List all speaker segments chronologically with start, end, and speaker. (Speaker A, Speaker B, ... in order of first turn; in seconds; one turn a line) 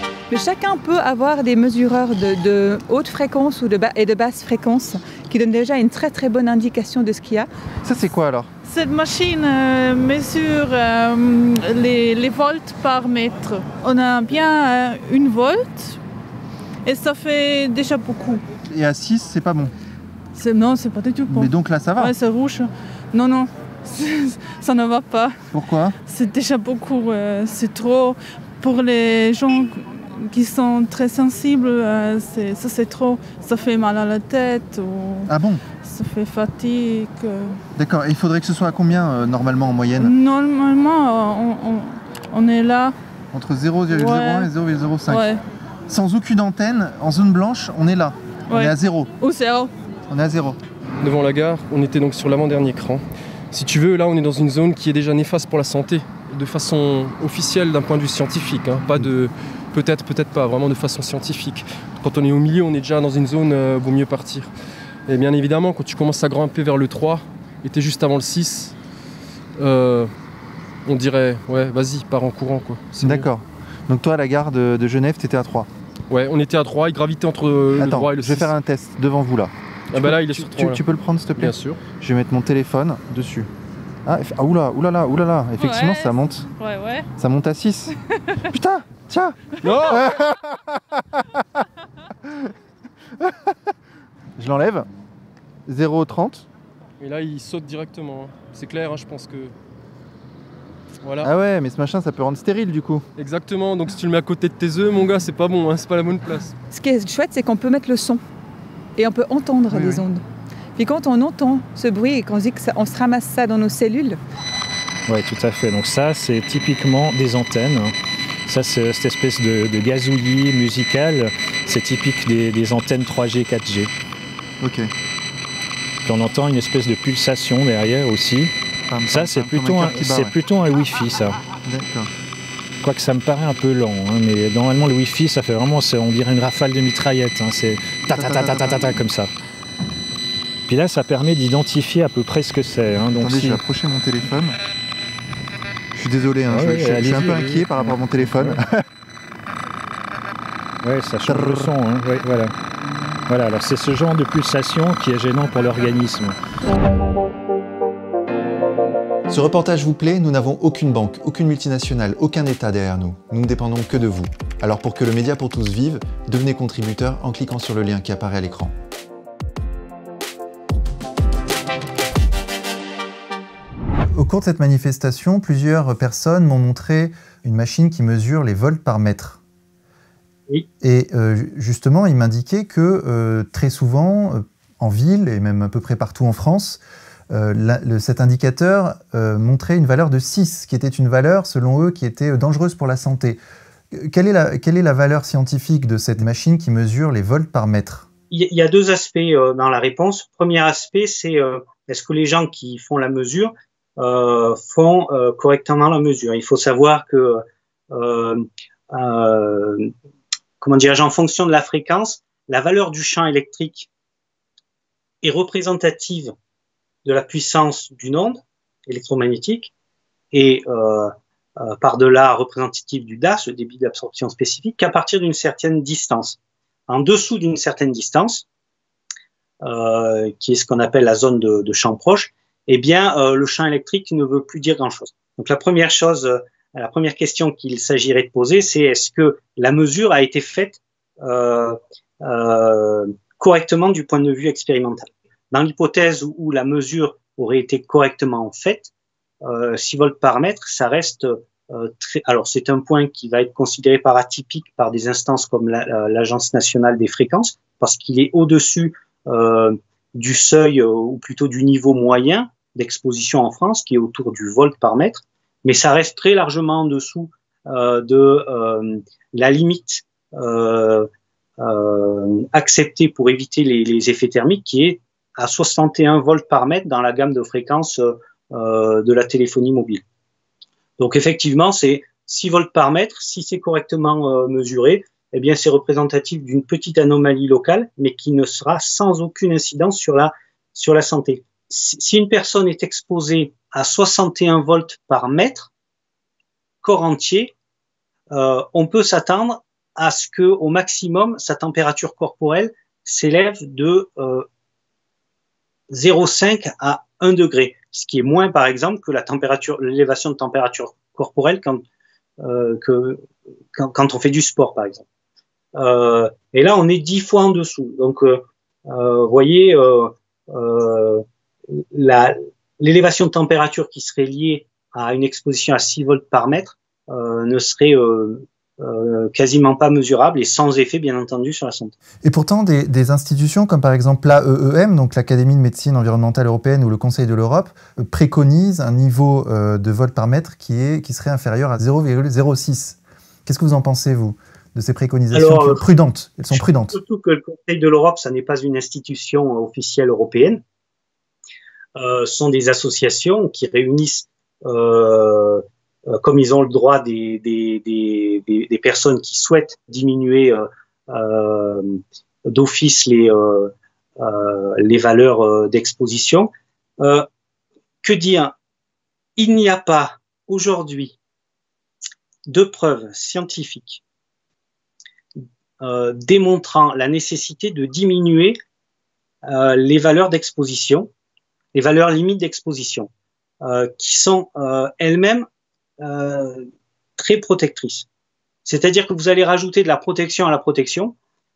Speaker A: 0.3-7.5
Speaker B: 7.8-8.5
Speaker C: 8.7-16.0
Speaker C: 16.9-18.4
Speaker B: 18.6-19.7
Speaker C: 20.4-25.4
Speaker B: 21.3-22.1
Speaker B: 25.5-26.0
Speaker C: 26.1-37.6
Speaker B: 35.3-35.6
Speaker B: 37.8-40.1
Speaker C: 40.0-42.9
Speaker B: 43.3-49.1
Speaker C: 43.9-44.5
Speaker C: 45.1-45.4
Speaker C: 48.5-49.7
Speaker B: 50.1-50.6
Speaker D: 51.0-64.5
Speaker D: 65.1-68.8
Speaker D: 69.6-70.1
Speaker D: 70.9-73.3
Speaker B: 73.0-75.7
Speaker D: 76.1-78.5
Speaker B: 77.8-83.5
Speaker D: 79.9-80.8
Speaker D: 81.3-81.8
Speaker B: 84.0-86.5
Speaker C: 85.6-87.1
Speaker B: 87.2-88.0
Speaker B: 88.5-91.4
Speaker D: 89.6-90.1
Speaker B: 93.2-93.5
Speaker B: 94.4-94.9
Speaker B: 95.7-96.5
Speaker D: 97.0-99.5
Speaker D: 101.0-101.3
Speaker B: 101.2-103.0
Speaker D: 103.2-106.5
Speaker A: 106.7-108.2
Speaker A: 109.0-110.2
Speaker B: 109.7-110.0
Speaker A: 110.8-114.2
Speaker E: 115.1-117.9
Speaker E: 118.5-123.9
Speaker B: 124.6-124.9
Speaker E: 126.0-128.5
Speaker B: 128.9-130.3
Speaker E: 129.1-131.4
Speaker B: 131.6-132.1
Speaker E: 132.8-139.3
Speaker B: 138.1-138.9
Speaker E: 140.7-143.6
Speaker B: 143.2-144.6
Speaker B: 145.9-148.8
Speaker E: 146.5-148.6
Speaker E: 150.8-152.5
Speaker B: 151.3-151.7
Speaker E: 153.3-156.4
Speaker B: 159.3-168.8
Speaker B: 174.1-179.4
Speaker B: 180.8-193.4
Speaker B: 193.9-198.1
Speaker F: 198.3-209.9
Speaker F: 210.6-213.9
Speaker F: 215.2-216.3
Speaker F: 217.1-219.7
Speaker F: 220.3-228.4
Speaker F: 229.6-248.9
Speaker F: 249.4-280.0
Speaker F: 281.0-295.7
Speaker F: 296.8-297.5
Speaker F: 298.3-304.5
Speaker F: 305.9-311.8
Speaker F: 312.4-313.2
Speaker F: 313.8-315.0
Speaker F: 315.8-321.2
Speaker F: 321.8-331.9
Speaker B: 332.2-347.0
Speaker F: 345.3-345.8
Speaker F: 346.5-350.6
Speaker F: 352.0-367.3
Speaker F: 368.0-368.5
Speaker F: 369.4-371.2
Speaker F: 372.5-374.0
Speaker F: 375.8-378.6
Speaker F: 379.4-381.1
Speaker F: 381.7-383.1
Speaker F: 383.6-385.5
Speaker F: 386.0-388.1
Speaker F: 388.6-391.1